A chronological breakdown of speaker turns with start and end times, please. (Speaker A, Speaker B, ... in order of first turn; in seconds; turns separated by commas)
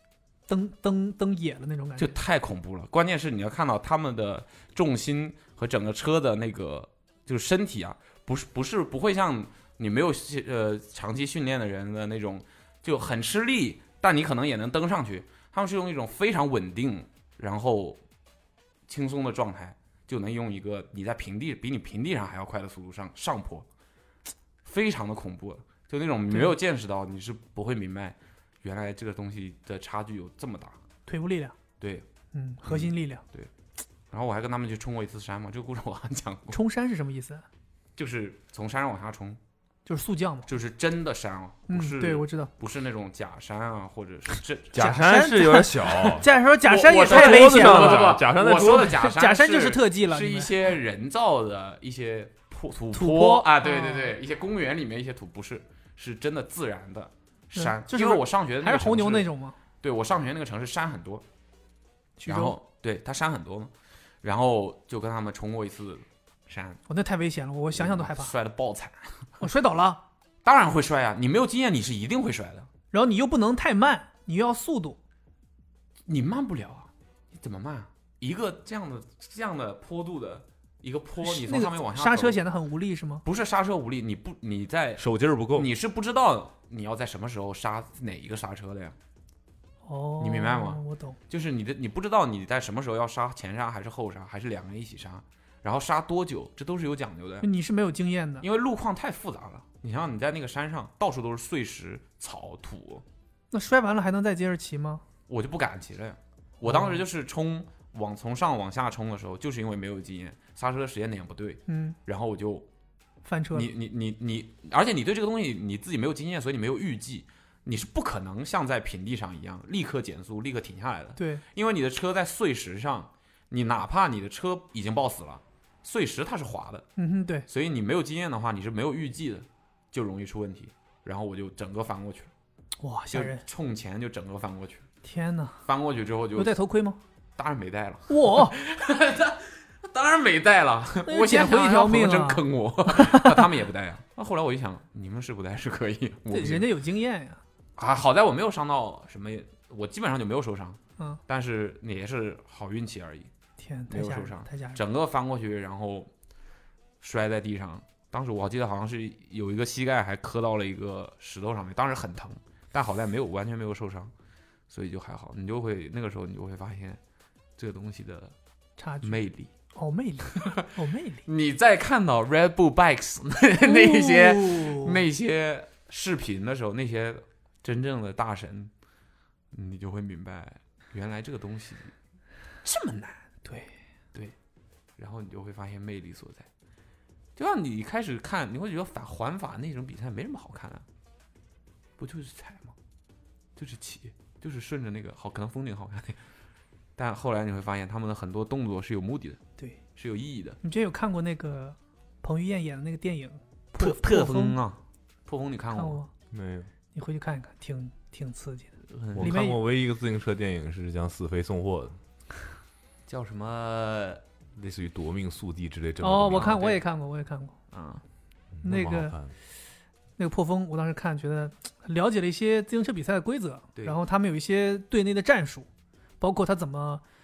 Speaker A: 0.5-2.1, Speaker B: 2.0-18.0, Speaker B: 18.9-23.7, Speaker B: 24.6-30.8, Speaker A: 31.1-31.6, Speaker B: 31.8-32.1, Speaker A: 32.3-33.2, Speaker B: 32.7-33.5, Speaker B: 34.1-36.6, Speaker A: 36.5-37.4, Speaker B: 38.0-39.4, Speaker A: 39.9-40.5, Speaker B: 40.5-45.0, Speaker A: 41.7-42.5, Speaker C: 44.7-46.3, Speaker A: 44.8-50.5, Speaker B: 46.6-59.3, Speaker C: 47.0-49.0, Speaker A: 52.9-54.1, Speaker A: 57.5-59.6, Speaker B: 59.8-61.2, Speaker A: 62.2-62.6, Speaker B: 62.3-63.7, Speaker B: 64.2-66.8, Speaker A: 66.9-68.3, Speaker B: 67.8-69.4, Speaker A: 69.4-70.0, Speaker B: 70.4-72.7, Speaker A: 72.9-75.0, Speaker B: 76.1-82.4, Speaker A: 81.2-83.2, Speaker B: 83.2-89.0, Speaker C: 85.0-85.7, Speaker A: 89.8-91.2, Speaker B: 90.2-97.5, Speaker A: 97.4-98.5, Speaker B: 98.4-103.0, Speaker A: 103.5-105.0, Speaker B: 105.3-112.7, Speaker A: 106.6-107.0, Speaker A: 111.7-112.0, Speaker A: 113.2-113.7, Speaker B: 113.5-126.9, Speaker A: 121.2-121.4, Speaker A: 127.0-127.5, Speaker B: 127.5-132.3, Speaker A: 132.8-133.4, Speaker B: 133.1-134.9, Speaker A: 135.0-135.6, Speaker B: 135.7-136.6, Speaker A: 136.4-137.0, Speaker B: 137.4-146.7, Speaker A: 138.1-138.6, Speaker A: 141.1-143.4, Speaker A: 146.3-147.4, Speaker B: 147.8-153.3, Speaker A: 153.6-154.8, Speaker B: 153.9-156.1, Speaker B: 157.0-164.1, Speaker B: 164.7-167.0, Speaker B: 167.6-168.3, Speaker A: 168.8-169.2, Speaker B: 169.0-169.5, Speaker A: 169.8-171.2, Speaker B: 170.4-170.6, Speaker B: 171.3-178.7, Speaker A: 173.6-175.0, Speaker B: 179.5-181.9, Speaker A: 182.7-183.7, Speaker B: 185.0-186.5, Speaker B: 187.4-190.8, Speaker B: 192.0-192.8, Speaker B: 193.6-196.2, Speaker B: 197.0-199.4, Speaker B: 200.0-200.6, Speaker A: 200.6-204.6, Speaker B: 203.8-206.0, Speaker A: 205.7-206.1, Speaker C: 206.3-206.7, Speaker A: 206.9-209.6, Speaker B: 208.9-209.4, Speaker C: 209.1-212.0, Speaker B: 213.1-214.2, Speaker C: 214.6-216.6, Speaker A: 216.0-217.6, Speaker B: 216.3-216.8, Speaker B: 217.7-218.0, Speaker C: 218.5-219.3, Speaker A: 218.6-219.2, Speaker A: 220.2-225.7, Speaker A: 226.2-227.0